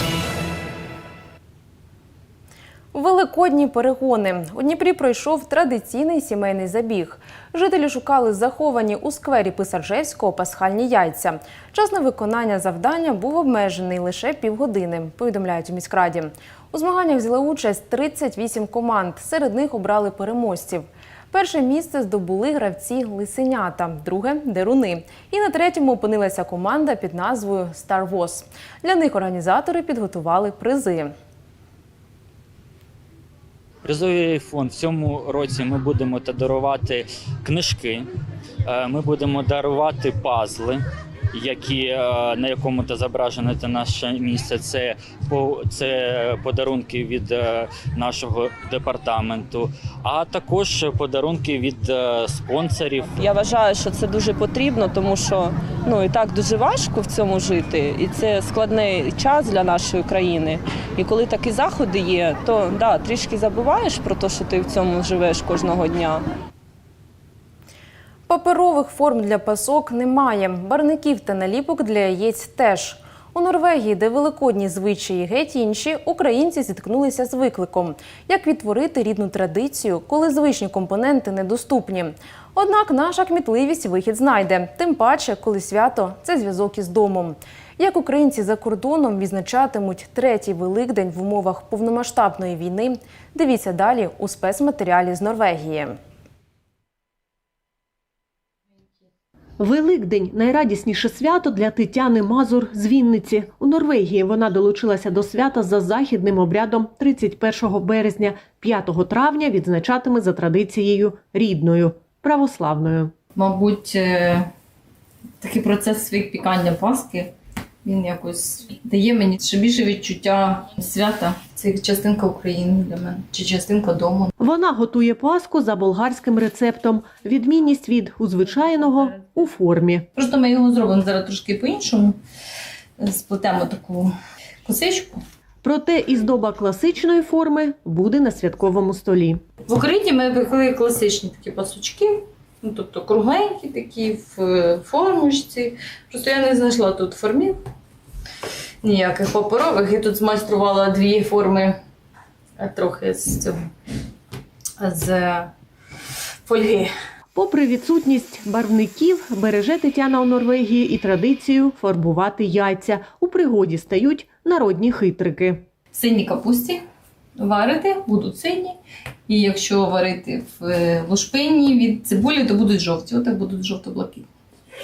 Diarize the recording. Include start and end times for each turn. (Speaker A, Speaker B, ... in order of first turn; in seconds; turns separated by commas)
Speaker A: 2.9-31.1, Speaker B: 33.8-38.0, Speaker B: 38.6-40.8, Speaker B: 41.3-53.2, Speaker C: 53.2-66.2, Speaker A: 68.3-96.0, Speaker D: 99.6-113.1, Speaker E: 113.3-114.4, Speaker E: 115.4-117.3, Speaker E: 117.8-124.3, Speaker D: 124.4-130.1, Speaker E: 130.2-132.2, Speaker E: 133.0-134.1, Speaker E: 134.6-135.2, Speaker D: 135.6-139.4, Speaker E: 139.7-147.6, Speaker E: 148.8-151.8, Speaker E: 152.6-153.6, Speaker E: 154.8-155.5, Speaker E: 156.5-156.9, Speaker D: 157.3-165.6, Speaker E: 165.9-166.8, Speaker E: 167.4-168.8, Speaker E: 169.3-174.2